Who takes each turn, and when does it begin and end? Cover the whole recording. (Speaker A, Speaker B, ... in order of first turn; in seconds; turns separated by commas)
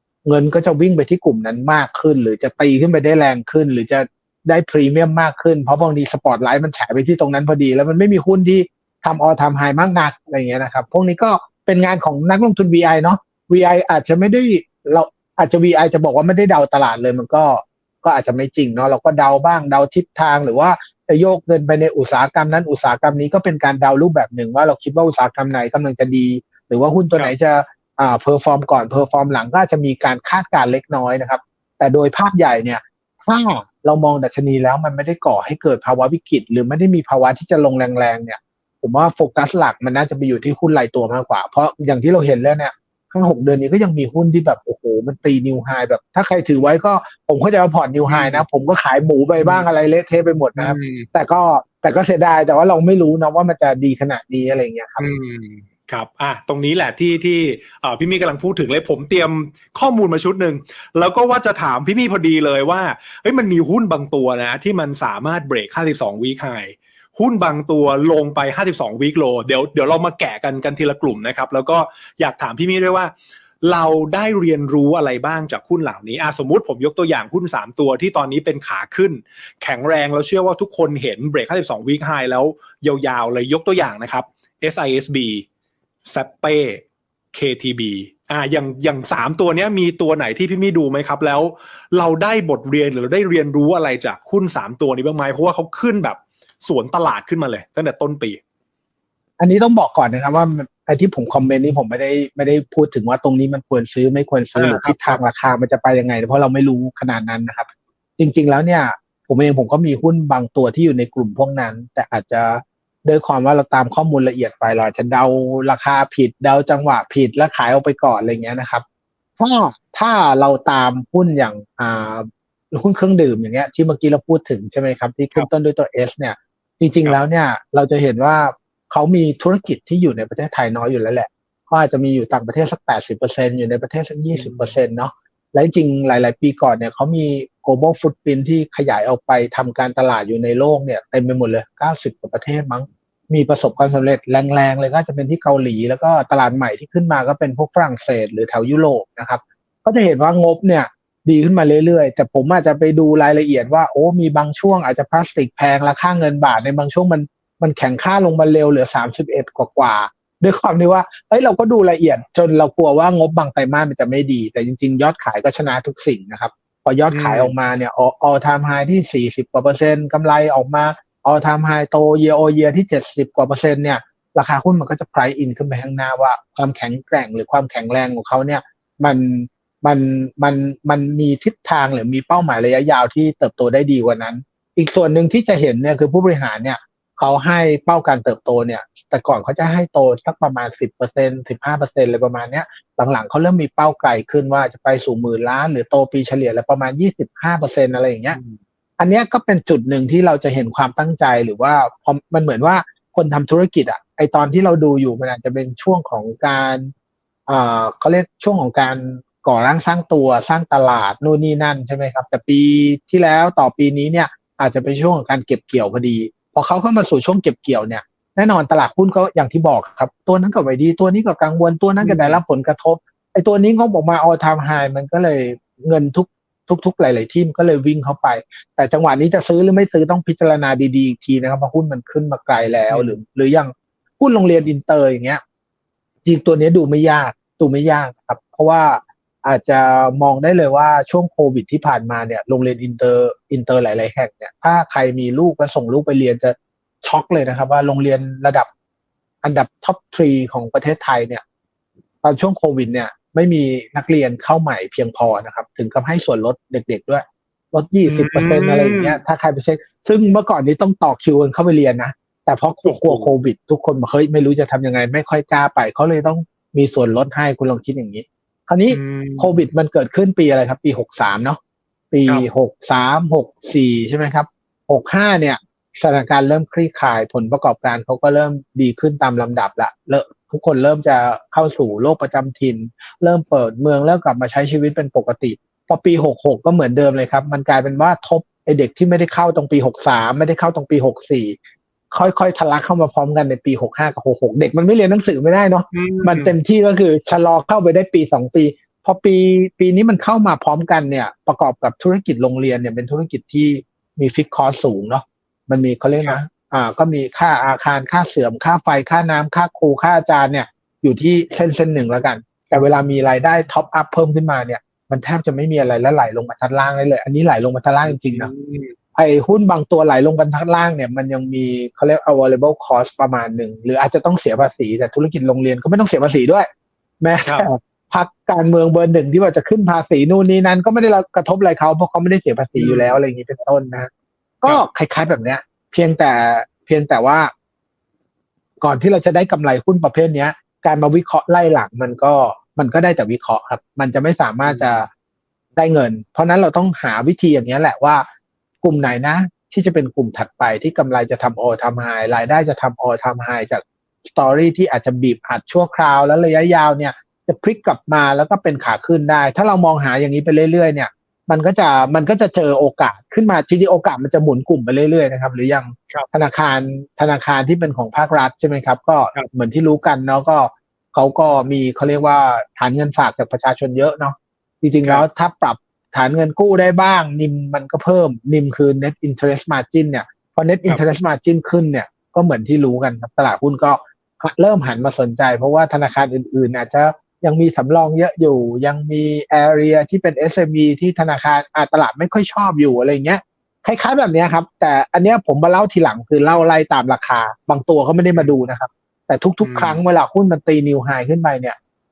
Speaker A: 0.2-55.0, Speaker B: 48.1-48.4, Speaker B: 50.5-51.1, Speaker B: 55.0-85.5, Speaker B: 86.0-98.4, Speaker A: 99.4-118.8, Speaker B: 104.5-105.2, Speaker A: 119.4-198.4, Speaker B: 134.3-134.8, Speaker B: 167.1-167.5, Speaker B: 198.3-198.6, Speaker A: 199.0-206.9, Speaker A: 207.5-235.4, Speaker B: 222.0-222.4, Speaker B: 232.9-233.2, Speaker A: 236.2-248.7, Speaker A: 249.4-251.4, Speaker A: 252.2-271.6, Speaker B: 258.0-259.2, Speaker B: 262.8-263.3, Speaker B: 268.9-269.6, Speaker A: 272.1-291.6, Speaker A: 292.1-318.5, Speaker B: 295.9-296.5, Speaker B: 318.0-318.9, Speaker A: 319.1-326.7, Speaker A: 327.2-334.1, Speaker B: 332.7-333.2, Speaker A: 334.6-337.5, Speaker A: 338.8-345.1, Speaker B: 344.6-345.1, Speaker A: 345.8-348.2, Speaker A: 348.8-401.8, Speaker B: 399.6-400.0